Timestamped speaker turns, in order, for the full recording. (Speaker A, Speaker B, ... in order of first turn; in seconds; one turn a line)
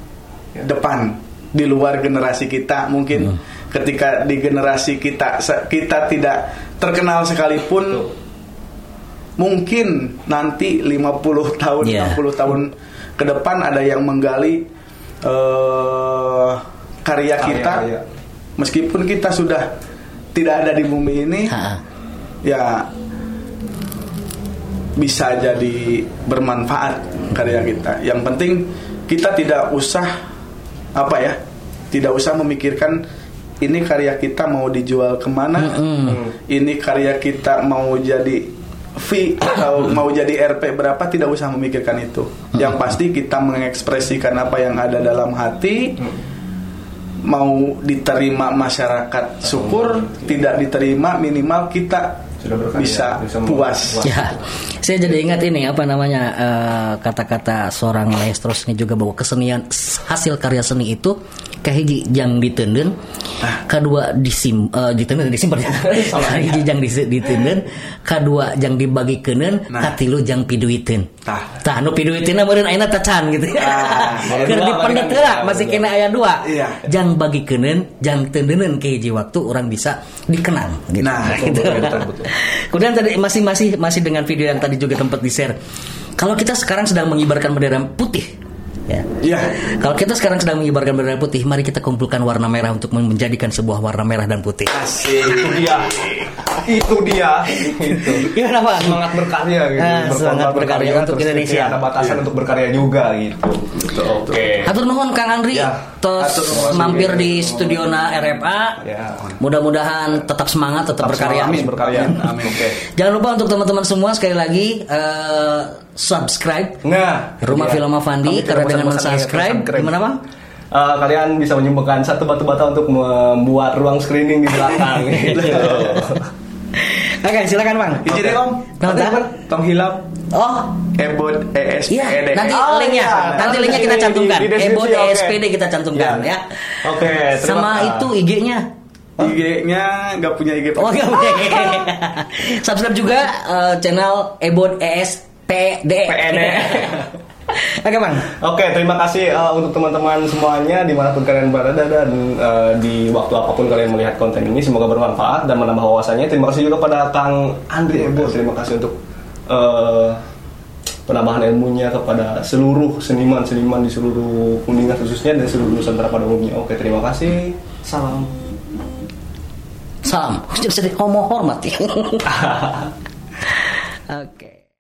Speaker A: 0.6-8.1
Speaker A: 9.4-14.7
Speaker B: 11.8-12.2
Speaker A: 15.2-17.9
Speaker C: 17.4-18.0
Speaker A: 18.6-19.7
Speaker A: 20.3-21.6
Speaker B: 21.5-21.8
Speaker A: 22.4-22.9
Speaker A: 25.0-30.1
Speaker A: 30.9-31.4
Speaker A: 31.9-33.0
Speaker A: 33.6-35.8
Speaker B: 35.6-36.2
Speaker C: 36.1-36.3
Speaker A: 36.4-46.1
Speaker A: 47.2-54.1
Speaker C: 49.5-50.5
Speaker C: 52.4-54.5
Speaker B: 54.0-63.0
Speaker B: 63.6-71.1
Speaker C: 65.7-66.7
Speaker A: 69.7-70.0
Speaker A: 71.2-71.5
Speaker B: 71.6-85.6
Speaker A: 73.6-74.7
Speaker C: 74.3-75.9
Speaker A: 76.4-76.8
Speaker A: 81.0-82.0
Speaker C: 81.2-82.3
Speaker B: 86.2-88.3
Speaker A: 89.2-89.6
Speaker B: 89.6-94.8
Speaker A: 94.7-96.2
Speaker C: 95.3-104.7
Speaker B: 97.9-99.1
Speaker B: 99.8-101.8
Speaker A: 103.8-104.6
Speaker B: 104.6-108.8
Speaker C: 105.5-105.8
Speaker A: 106.2-107.3
Speaker C: 106.5-107.9
Speaker C: 108.8-109.3
Speaker B: 109.4-112.1
Speaker C: 111.0-112.8
Speaker A: 111.1-112.7
Speaker B: 112.8-116.8
Speaker C: 116.8-120.1
Speaker B: 117.4-120.2
Speaker C: 120.7-126.3
Speaker B: 125.0-126.1
Speaker A: 125.4-125.7
Speaker B: 126.8-128.2
Speaker A: 128.1-128.8
Speaker C: 128.1-129.5
Speaker B: 128.8-129.2
Speaker A: 129.4-130.0
Speaker B: 130.3-130.8
Speaker A: 130.9-134.0
Speaker B: 131.9-138.7
Speaker C: 132.4-135.4
Speaker C: 135.9-136.3
Speaker C: 136.8-138.1
Speaker A: 139.2-141.7
Speaker B: 140.8-147.0
Speaker C: 146.1-147.1
Speaker B: 147.6-148.3
Speaker C: 148.3-159.0
Speaker C: 159.5-160.2
Speaker C: 161.1-168.3
Speaker B: 170.0-172.3
Speaker C: 172.3-172.9
Speaker B: 174.1-174.6